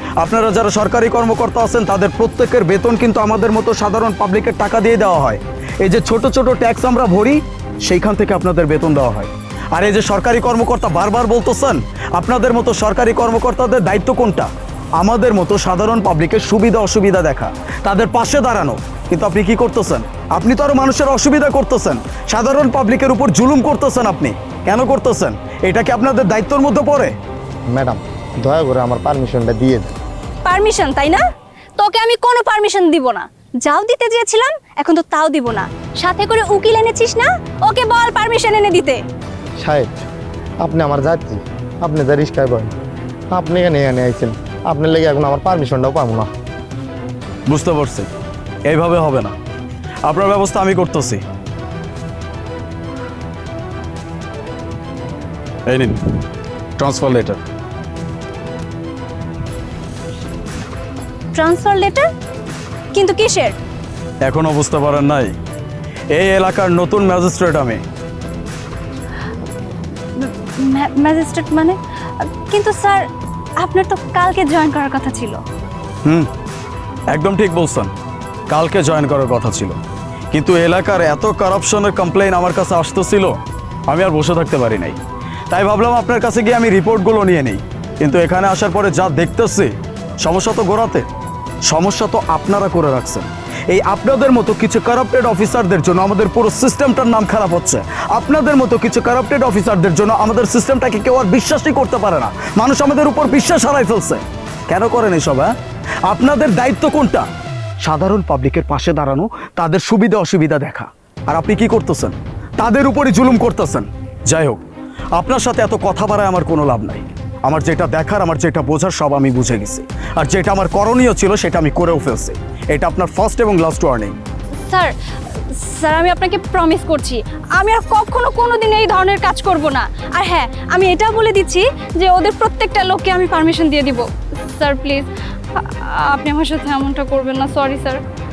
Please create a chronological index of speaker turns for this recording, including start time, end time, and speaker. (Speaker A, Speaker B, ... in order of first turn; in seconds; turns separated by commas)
Speaker A: 0.2-27.1, Speaker B: 27.7-30.0, Speaker C: 30.4-31.2, Speaker C: 31.8-39.0, Speaker B: 39.6-40.0, Speaker B: 40.6-42.7, Speaker B: 43.3-46.3, Speaker A: 47.5-48.1, Speaker A: 48.7-49.3, Speaker A: 50.1-51.2, Speaker A: 55.7-56.0, Speaker A: 56.8-57.4, Speaker C: 61.4-62.1, Speaker C: 62.9-63.6, Speaker A: 64.2-65.4, Speaker A: 66.1-67.8, Speaker C: 70.2-73.0, Speaker C: 73.6-75.4, Speaker A: 77.1-77.9, Speaker A: 78.5-79.8, Speaker A: 80.3-83.3, Speaker A: 83.9-85.0, Speaker A: 85.5-91.1, Speaker A: 91.7-105.5, Speaker A: 106.1-107.3, Speaker A: 107.8-114.6, Speaker A: 115.2-124.2, Speaker C: 124.7-138.1